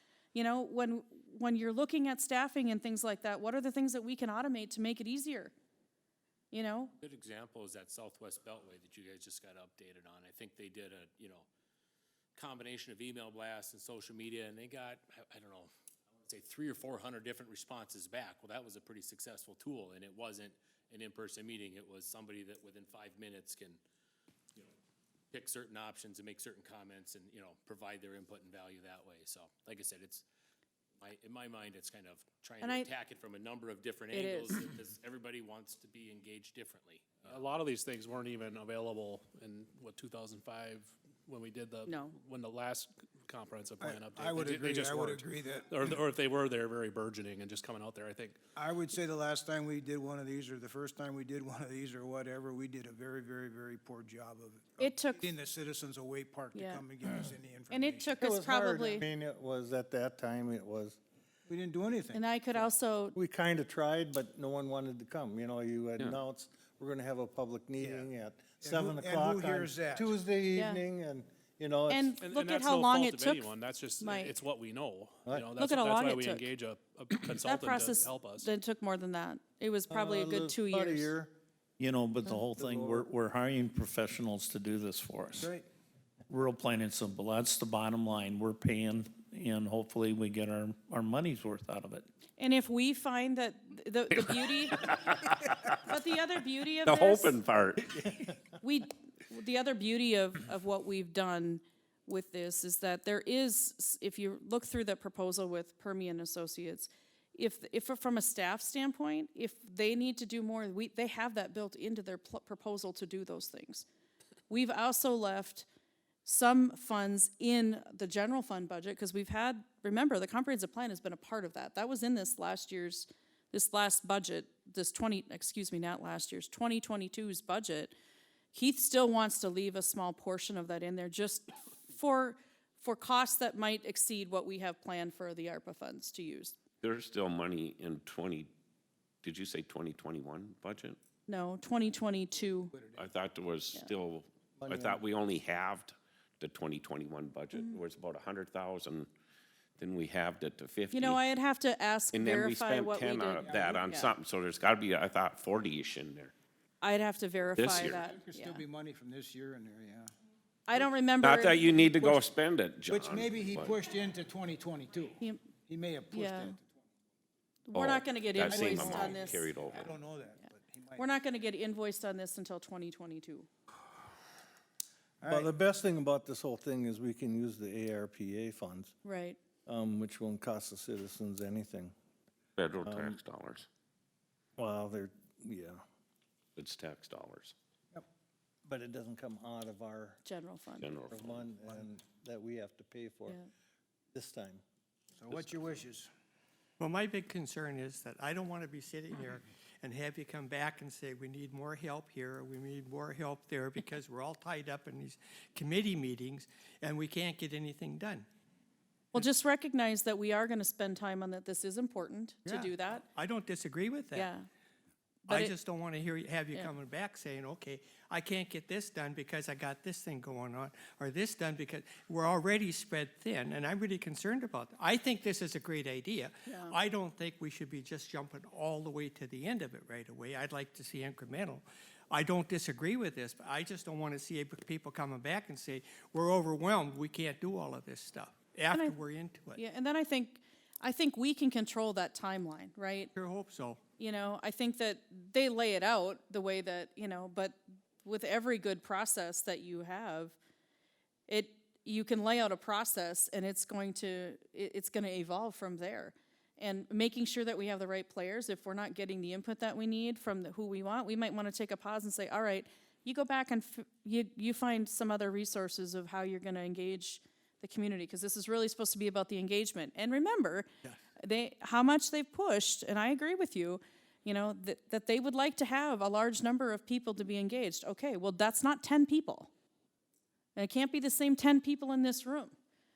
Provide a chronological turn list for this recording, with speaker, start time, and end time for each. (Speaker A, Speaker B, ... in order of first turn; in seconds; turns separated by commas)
Speaker A: 0.3-5.5, Speaker A: 6.5-6.9, Speaker B: 7.0-11.5, Speaker B: 12.3-15.7, Speaker B: 16.2-23.8, Speaker B: 25.3-30.2, Speaker B: 31.0-37.4, Speaker A: 32.6-32.9, Speaker A: 34.1-34.6, Speaker C: 37.2-48.4, Speaker A: 41.9-42.1, Speaker D: 43.8-46.0, Speaker D: 48.5-58.1, Speaker A: 54.8-55.3, Speaker A: 56.5-56.8, Speaker A: 57.7-59.0, Speaker E: 58.2-61.0, Speaker D: 61.5-62.2, Speaker A: 62.1-63.2, Speaker E: 63.1-72.1, Speaker F: 66.0-66.2, Speaker D: 67.8-68.1, Speaker D: 68.6-70.1, Speaker A: 70.5-70.8, Speaker A: 71.9-74.4, Speaker C: 72.2-78.5, Speaker A: 75.5-76.5, Speaker A: 77.4-81.1, Speaker E: 79.9-81.3, Speaker G: 81.8-85.5, Speaker E: 82.6-83.0, Speaker D: 85.4-85.6, Speaker G: 86.3-92.0, Speaker A: 92.4-94.9, Speaker F: 94.4-95.7, Speaker A: 95.8-97.4, Speaker F: 96.8-98.1, Speaker A: 98.6-113.8, Speaker A: 114.5-115.7, Speaker A: 116.2-127.9, Speaker A: 128.5-136.6, Speaker F: 136.8-138.5, Speaker F: 139.2-141.0, Speaker A: 141.3-142.7, Speaker D: 142.7-143.0, Speaker F: 142.9-149.1, Speaker E: 144.7-145.0, Speaker F: 149.8-151.2, Speaker A: 150.9-154.1, Speaker F: 152.1-156.3, Speaker D: 153.4-153.8, Speaker A: 156.8-158.6, Speaker F: 157.6-158.0, Speaker D: 157.7-160.1, Speaker A: 160.7-161.9, Speaker F: 161.2-163.8, Speaker D: 161.8-162.2, Speaker D: 162.9-166.6, Speaker A: 166.1-166.6, Speaker A: 167.7-169.4, Speaker F: 167.7-170.0, Speaker D: 168.5-171.1, Speaker A: 170.9-173.5, Speaker D: 175.2-175.5, Speaker E: 175.3-178.9, Speaker A: 179.0-179.4, Speaker E: 179.7-181.9, Speaker F: 182.6-183.7, Speaker E: 182.8-183.2, Speaker E: 184.6-185.8, Speaker F: 186.6-187.5, Speaker E: 188.6-190.2, Speaker A: 190.2-190.9, Speaker F: 190.8-191.6, Speaker E: 191.1-193.4, Speaker E: 194.1-194.6, Speaker D: 195.1-196.1, Speaker F: 195.3-195.8, Speaker H: 196.8-208.3, Speaker A: 209.1-213.1, Speaker H: 212.4-214.3, Speaker A: 214.1-214.4, Speaker A: 215.3-215.5, Speaker H: 215.3-239.6, Speaker A: 226.4-226.7, Speaker A: 239.5-243.1, Speaker H: 243.1-243.8, Speaker A: 244.0-250.4, Speaker A: 251.3-270.7, Speaker A: 271.2-279.5, Speaker A: 280.6-282.5